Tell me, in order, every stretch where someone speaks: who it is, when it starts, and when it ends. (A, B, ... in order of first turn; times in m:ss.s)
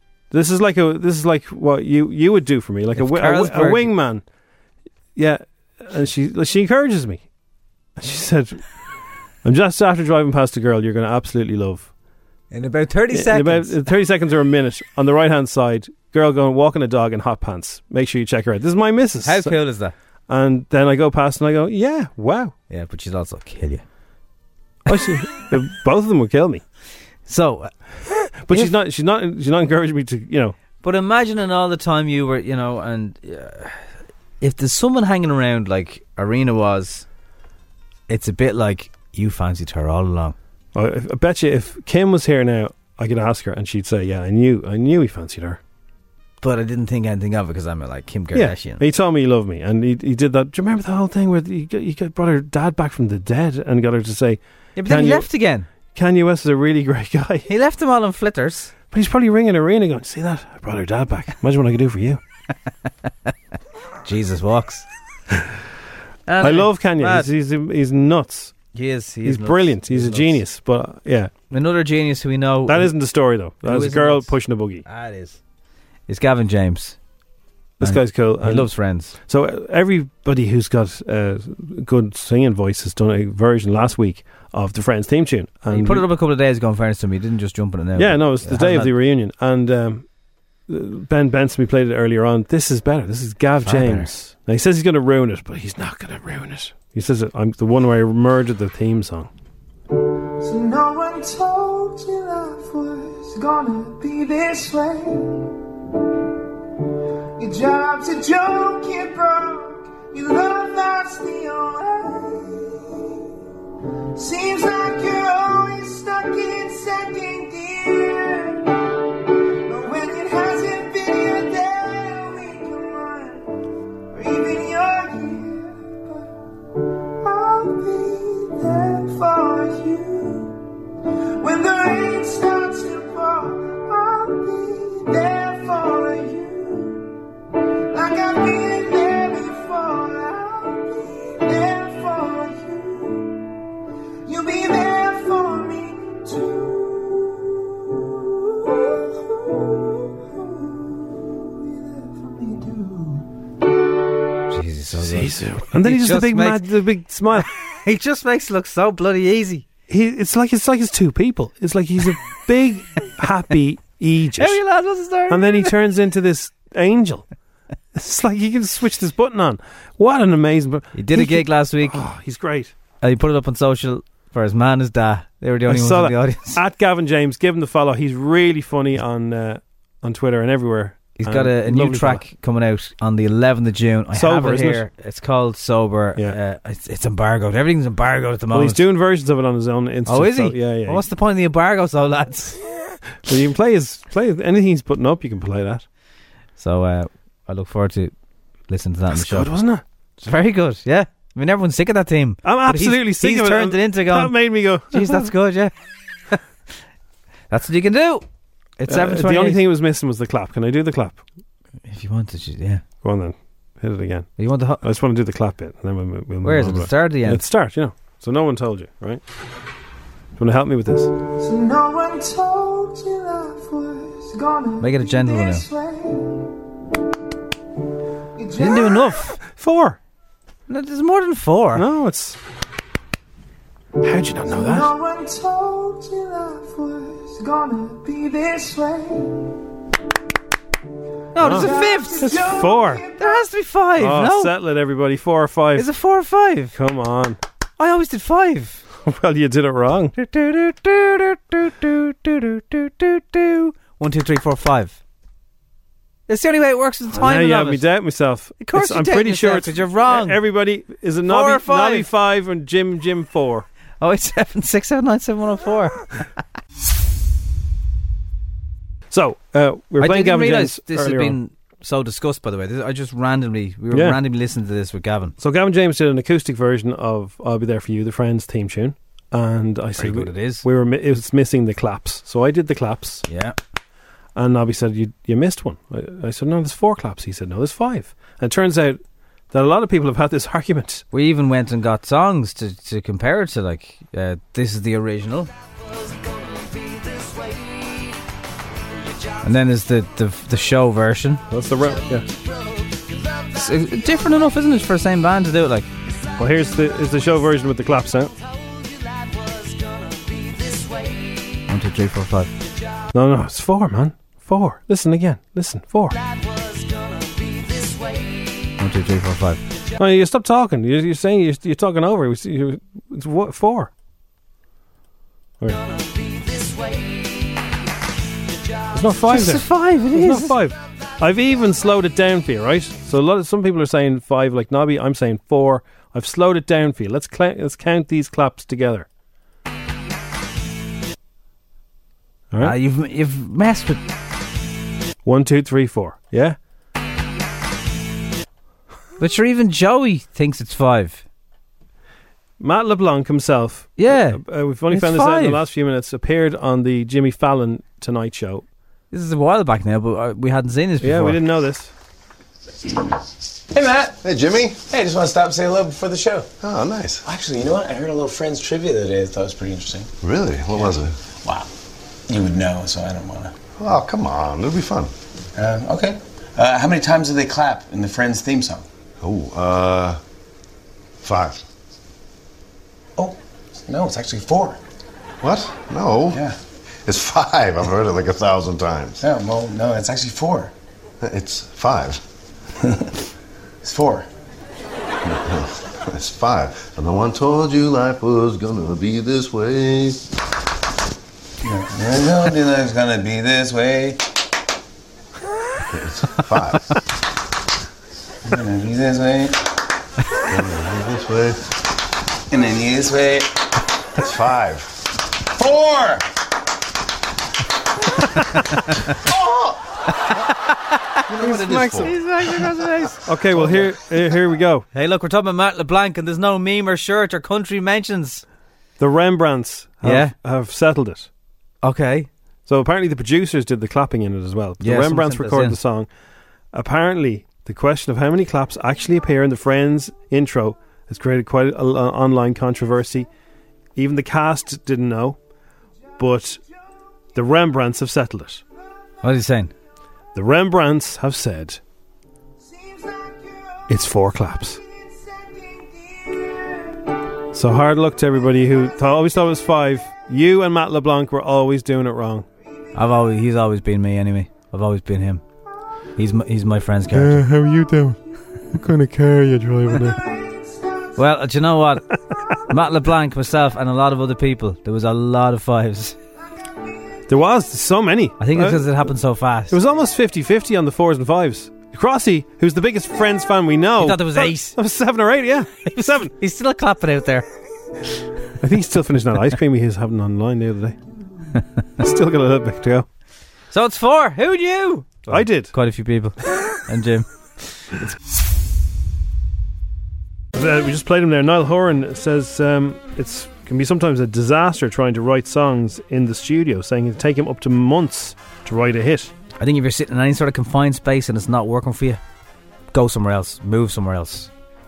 0:00.3-0:04.2 A
0:03.0-0:03.9 B
0:05.2-0:07.2 A
0:08.0-0:08.6 A
0:09.4-0:11.9 A
0:12.5-0:13.8 B
0:13.1-0:19.5 A
0:19.2-0:19.9 B
0:20.3-0:22.5 A
0:22.7-0:23.8 B
0:24.9-0:26.6 A
0:27.2-0:27.7 B
0:28.1-0:30.6 A
0:30.8-0:33.9 B
0:34.4-0:37.0 B
0:38.1-0:40.4 B
0:40.7-0:45.6 A
0:46.4-0:48.8 B
0:48.3-0:55.3 A
0:54.8-0:55.7 B
0:55.9-0:57.5 A
0:57.5-0:58.7 B
0:58.9-1:02.2 A
1:04.0-1:04.9 B
1:06.3-1:07.3 B
1:06.4-1:08.6 A
1:08.7-1:10.4 B
1:09.2-1:11.3 A
1:11.5-1:12.9 B
1:12.7-1:14.8 A
1:13.6-1:14.3 B
1:14.8-1:15.4 B
1:16.1-1:17.0 B
1:17.8-1:18.7 A
1:17.8-1:19.1 B
1:19.2-1:26.1 A
1:25.7-1:28.9 B
1:28.0-1:30.0 A
1:30.7-1:39.3 A
1:33.6-1:34.1 B
1:40.4-1:45.5 C
1:47.4-1:53.2 C
1:54.1-1:58.9 C
1:59.6-2:03.5 C
2:04.1-2:06.3 C
2:07.2-2:10.6 C
2:11.4-2:17.1 C
2:17.9-2:23.4 C
2:24.2-2:33.2 C
2:34.5-2:36.6 B
2:34.9-2:37.5 A
2:37.4-2:39.6 B
2:39.9-2:44.6 A
2:44.4-2:45.7 B
2:45.3-2:47.3 A
2:47.9-2:52.7 A
2:50.9-2:52.0 B
2:53.0-2:56.6 B
2:55.7-3:02.2 A
3:01.2-3:08.8 B
3:04.1-3:04.9 A
3:08.5-3:11.0 A
3:10.1-3:12.6 B
3:13.2-3:15.8 A
3:16.6-3:18.1 B
3:18.7-3:19.5 B
3:19.1-3:19.8 A
3:20.2-3:24.4 B
3:22.4-3:25.3 A
3:24.9-3:25.7 B
3:27.5-3:28.2 B
3:28.8-3:29.6 B
3:28.9-3:31.2 A
3:31.8-3:32.8 B
3:33.0-3:34.3 A
3:34.4-3:34.8 B
3:34.8-3:39.2 A
3:36.4-3:37.4 B
3:40.4-3:41.1 A
3:41.4-3:46.4 C
3:44.8-3:45.6 B
3:48.4-3:49.0 C
3:48.6-3:49.4 B
3:49.4-3:50.0 A
3:50.7-3:51.8 B
3:51.7-3:52.4 A
3:54.0-3:54.9 A
3:54.5-3:59.5 C
4:01.3-4:02.4 B
4:01.4-4:03.0 A
4:01.4-4:03.4 C
4:03.2-4:04.5 B
4:04.0-4:05.9 A
4:05.8-4:06.7 B
4:06.7-4:07.4 A
4:07.8-4:08.8 B
4:09.0-4:10.1 A
4:10.2-4:15.0 B
4:16.3-4:17.9 B
4:17.1-4:23.7 A
4:18.6-4:20.4 B
4:21.3-4:22.1 B
4:24.0-4:26.3 B
4:29.1-4:31.4 A
4:30.0-4:35.4 B
4:33.9-4:34.2 A
4:35.4-4:43.2 A
4:40.0-4:40.6 B
4:43.2-4:43.6 B
4:44.4-4:49.0 A
4:49.5-4:51.0 A
4:51.1-4:55.5 B
4:59.4-5:01.4 B
5:01.5-5:02.3 A
5:03.5-5:05.9 B
5:06.4-5:08.3 A
5:11.7-5:12.5 B
5:13.1-5:16.2 A
5:18.8-5:19.6 B
5:20.0-5:23.9 A
5:28.9-5:39.1 A
5:29.3-5:30.6 B
5:42.5-5:42.8 A
5:42.6-5:44.0 B
5:45.2-5:46.6 A
5:49.2-5:51.2 B
5:52.6-5:58.6 A
5:54.0-5:55.6 B
5:59.1-6:01.4 B
6:01.0-6:01.9 A
6:03.8-6:04.1 D
6:04.2-6:04.8 E
6:04.9-6:06.5 D
6:06.6-6:07.2 E
6:07.2-6:10.1 D
6:10.2-6:11.1 E
6:10.7-6:11.7 D
6:12.3-6:13.6 D
6:13.8-6:15.1 E
6:15.6-6:18.8 D
6:19.2-6:20.2 E
6:21.2-6:21.6 E
6:23.2-6:24.8 D
6:25.4-6:26.4 E
6:27.1-6:29.1 E
6:29.2-6:30.7 D
6:31.2-6:32.2 E
6:33.8-6:34.3 D
6:35.3-6:40.1 E
6:41.6-6:44.2 D
6:46.0-6:46.7 E
6:48.4-6:49.6 D
6:50.5-6:51.5 E
6:52.5-6:53.5 D
6:54.3-6:54.8 E
6:55.5-6:56.2 D
6:58.6-6:59.1 B
7:01.3-7:02.1 A
7:01.3-7:03.8 B
7:03.2-7:04.9 A
7:04.9-7:08.4 B
7:09.0-7:11.3 A
7:10.0-7:10.3 B
7:11.8-7:12.3 B
7:12.6-7:16.1 A
7:14.8-7:15.8 B
7:16.7-7:23.3 A
7:24.0-7:25.4 A
7:26.2-7:26.6 A
7:27.4-7:28.6 A
7:29.2-7:29.7 B
7:30.4-7:31.8 A
7:32.6-7:33.8 C
7:33.9-7:34.8 A
7:34.9-7:36.9 C
7:37.5-7:42.4 A
7:42.9-7:45.4 B
7:46.2-7:47.4 B
7:47.1-7:48.2 A
7:48.7-7:50.2 A
7:50.2-7:51.1 C
7:51.2-7:52.1 B
7:52.7-7:56.2 B
7:57.3-7:59.1 A
7:58.4-7:59.8 B
7:59.7-8:06.3 A
8:04.0-8:04.8 B
8:05.9-8:07.4 B
8:08.6-8:11.0 A
8:12.0-8:13.1 A
8:13.7-8:17.3 B
8:15.3-8:15.7 A
8:20.5-8:29.3 A
8:29.6-8:32.2 B
8:32.9-8:34.5 B